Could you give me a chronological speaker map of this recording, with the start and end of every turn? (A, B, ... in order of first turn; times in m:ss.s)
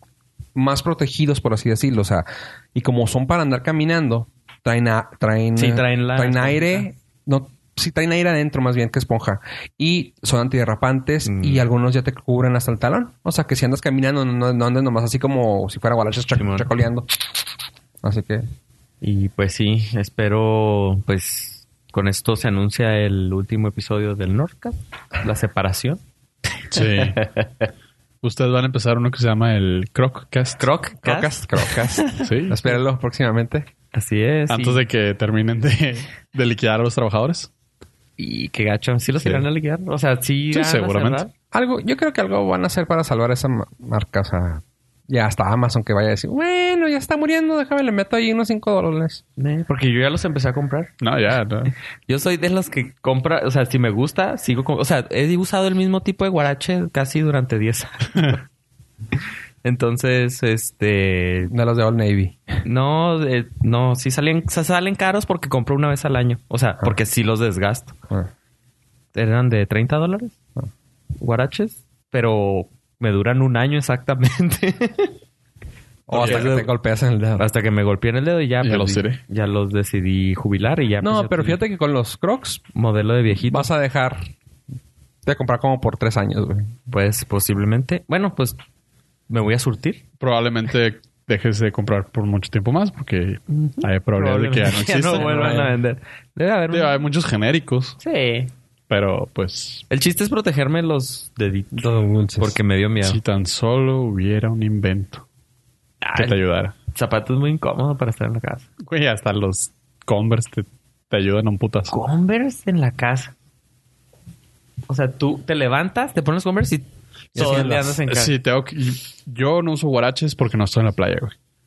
0:00.6-0:17.2 A
0:05.6-0:06.8 B
0:11.2-0:11.6 B
0:16.3-0:16.7 B
0:18.0-0:18.5 A
0:19.0-0:26.0 B
0:26.7-0:27.2 C
0:26.7-0:27.7 B
0:28.2-0:30.6 C
0:30.6-0:32.3 B
0:31.0-0:33.7 A
0:32.2-0:32.6 C
0:33.9-0:34.8 B
0:34.5-0:37.5 C
0:38.2-0:41.3 B
0:40.5-0:41.2 C
0:41.5-0:49.2 A
0:49.4-0:50.9 B
0:51.0-0:51.7 C
0:52.1-0:58.4 B
0:59.6-1:01.5 B
1:01.5-1:02.6 A
1:02.6-1:08.0 B
1:09.1-1:10.4 B
1:11.2-1:15.1 B
1:16.1-1:17.5 A
1:16.1-1:16.7 B
1:16.1-1:16.5 C
1:17.4-1:21.6 B
1:18.6-1:19.2 C
1:21.0-1:22.6 A
1:22.7-1:23.7 B
1:23.4-1:24.3 A
1:25.2-1:26.7 A
1:26.9-1:28.6 B
1:29.3-1:30.0 B
1:30.2-1:35.6 C
1:33.5-1:37.0 B
1:35.1-1:35.7 A
1:36.7-1:38.0 C
1:38.0-1:38.5 B
1:38.9-1:39.8 C
1:39.9-1:43.2 B
1:41.8-1:42.6 A
1:43.0-1:45.2 C
1:46.0-1:48.7 B
1:46.2-1:46.8 C
1:48.8-1:51.9 C
1:51.9-1:53.3 B
1:54.9-1:58.3 B
1:57.4-1:58.0 A
1:57.4-2:01.4 C